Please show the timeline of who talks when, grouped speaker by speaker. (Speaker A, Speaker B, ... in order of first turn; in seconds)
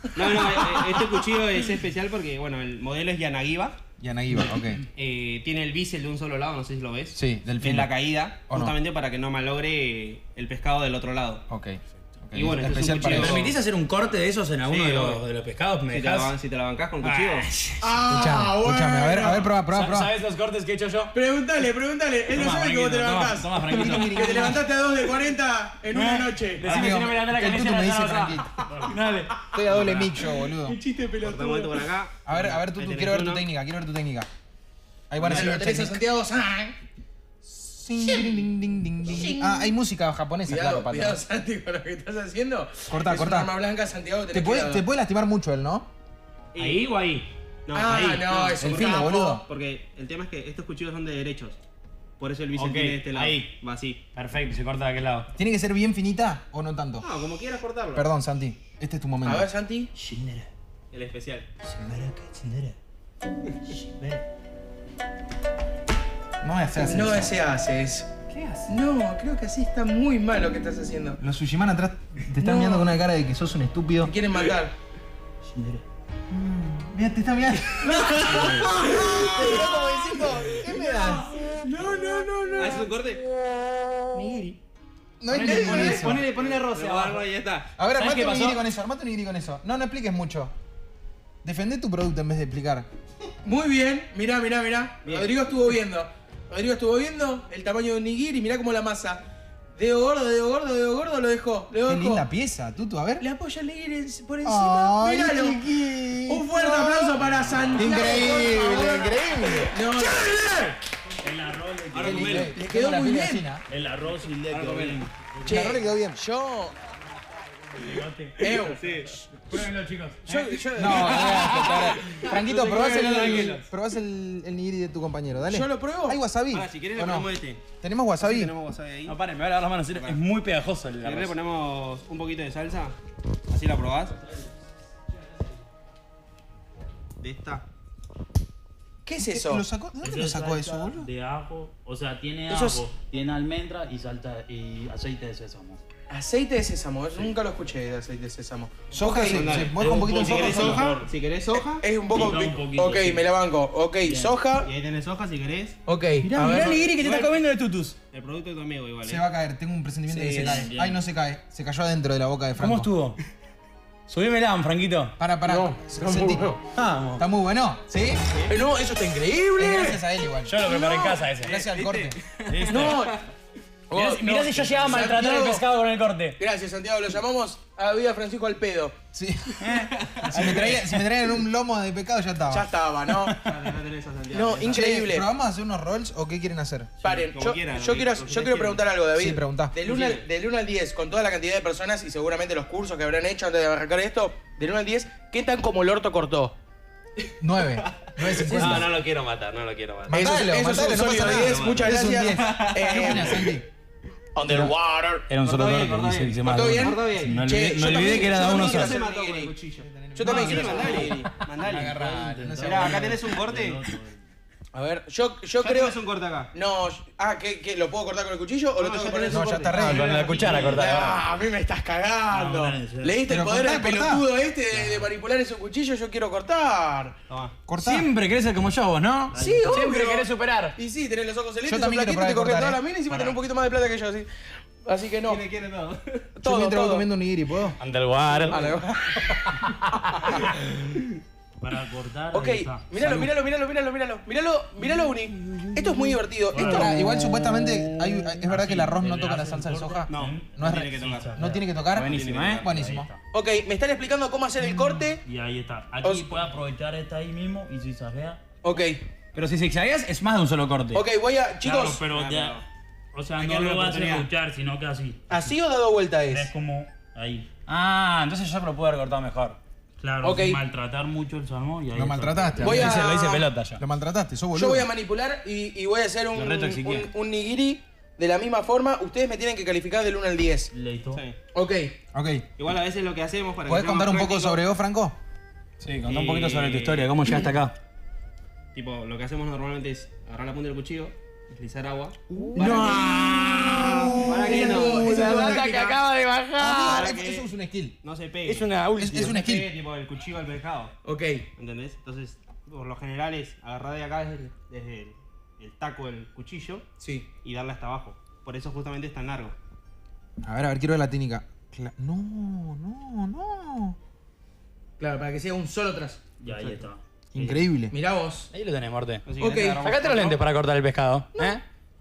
Speaker A: 0.2-3.8, 5.0-11.4, 12.3-13.5, 14.7-15.2, 15.9-17.5, 31.2-33.5, 46.5-51.6, 52.2-54.0, 57.0-58.1, 60.9-61.5, 82.6-83.2, 85.5-87.7, 95.0-95.3, 111.9-112.6, 114.5-115.0, 118.7-119.2, 126.5-127.6, 128.2-129.2, 131.0-132.9, 133.5-134.1, 137.2-137.7, 149.2-151.8, 154.7-155.8, 156.9-157.4, 158.1-159.2, 168.3-168.6, 171.3-173.2, 180.0-180.8, 183.4-184.9, 187.1-188.8, 189.8-190.2, 197.9-203.5, 205.4-207.4, 208.0-212.0, 212.6-213.8, 215.6-216.5, 218.8-220.9, 227.3-227.6, 233.1-233.4, 235.2-236.3, 250.1-253.0, 261.9-262.6, 263.4-264.3, 281.1-281.4, 282.6-284.6, 286.1-287.1, 288.7-292.2, 294.2-295.2, 296.9-297.4, 298.0-300.9, 301.6-306.9, 307.4-309.6, 319.3-320.4
Speaker B: 4.0-4.8, 7.1-8.8, 11.5-13.5, 18.1-20.1, 23.7-24.6, 26.6-28.7, 29.5-30.8, 32.2-34.3, 35.1-36.0, 37.4-41.2, 42.9-43.5, 44.3-45.9, 48.6-49.5, 55.4-57.1, 57.9-59.5, 66.4-67.4, 68.3-68.7, 71.2-74.1, 76.3-81.3, 85.2-86.3, 87.8-90.5, 91.4-92.9, 101.8-103.2, 104.4-107.2, 107.8-110.3, 112.0-113.7, 115.5-116.2, 120.8-128.5, 139.2-141.1, 148.9-151.0, 159.1-162.9, 165.2-168.2, 169.6-170.7, 171.4-172.2, 179.1-182.7, 184.7-186.9, 189.1-189.8, 197.4-198.9, 200.1-203.7, 208.4-213.2, 219.3-220.4, 223.3-224.2, 227.7-228.1, 231.7-232.8, 236.4-237.8, 243.0-243.3, 246.6-253.1, 271.9-274.9, 282.1-282.5, 283.7-285.2, 292.3-295.6, 296.6-298.0, 299.0-299.7, 310.4-314.0, 317.3-317.9
Speaker C: 12.9-16.3, 17.0-17.9, 19.7-21.1, 22.3-24.6, 25.9-29.9, 46.6-47.3, 52.5-53.5, 54.1-55.3, 60.0-60.5, 61.6-62.8, 63.7-64.2, 77.9-79.7, 84.2-84.6, 85.3-87.3, 87.9-88.7, 117.8-123.7, 129.1-131.3, 156.2-158.0, 162.6-163.2, 164.1-165.1, 166.8-167.2, 170.5-171.6, 172.5-173.1, 173.9-176.4, 179.6-180.8, 204.3-209.0, 219.7-221.2, 227.8-230.8, 237.8-238.8, 240.0-240.5, 245.5-246.2, 246.8-248.4, 251.9-252.7, 259.3-261.1, 267.7-269.6, 272.6-273.8, 276.3-277.1, 285.8-287.8, 292.4-297.2, 298.4-299.4, 318.5-319.3, 319.8-321.6
Speaker D: 17.8-19.5, 21.1-26.9, 30.6-31.8, 35.2-36.8, 39.1-39.4, 40.5-44.8, 47.7-49.4, 59.2-59.9, 66.8-68.1, 68.7-71.2, 72.4-72.9, 74.0-74.7, 79.4-80.9, 81.6-82.9, 85.4-86.2, 93.4-99.2, 99.8-102.3, 103.2-105.6, 106.2-110.8, 112.5-113.5, 115.4-116.8, 118.4-118.9, 120.3-123.6, 125.5-126.2, 139.1-139.7, 142.5-142.8, 146.1-149.7, 150.6-150.8, 151.5-154.7, 155.9-156.9, 165.4-166.6, 168.5-170.0, 170.7-171.2, 172.7-173.2, 173.9-175.6, 176.4-178.9, 182.5-183.5, 184.3-185.3, 187.0-196.6, 198.5-198.8, 200.1-203.5, 206.5-209.0, 210.2-211.3, 214.7-215.9, 216.5-227.2, 229.4-235.4, 236.4-237.1, 238.5-239.4, 242.3-247.0, 253.3-255.2, 256.0-256.4, 258.6-259.0, 260.9-262.0, 265.3-266.5, 270.2-270.6, 272.6-273.5, 274.5-280.7, 281.5-282.0, 292.6-293.8, 294.4-296.0, 301.0-301.5, 307.0-307.3, 315.0-316.3, 317.9-318.5, 319.4-319.9
Speaker E: 28.7-28.9, 75.5-75.8, 78.3-78.7, 107.1-108.2, 111.2-112.7, 113.7-115.7, 140.0-145.8, 149.7-151.2, 152.0-153.3, 154.0-154.4, 160.3-161.1, 187.0-187.3, 211.5-214.2, 222.3-223.3, 229.3-229.9, 241.6-243.1, 246.5-246.9, 248.4-251.8, 252.6-253.2, 255.2-258.6, 261.6-265.6, 266.3-267.5, 270.0-272.9, 280.7-281.3, 316.4-317.0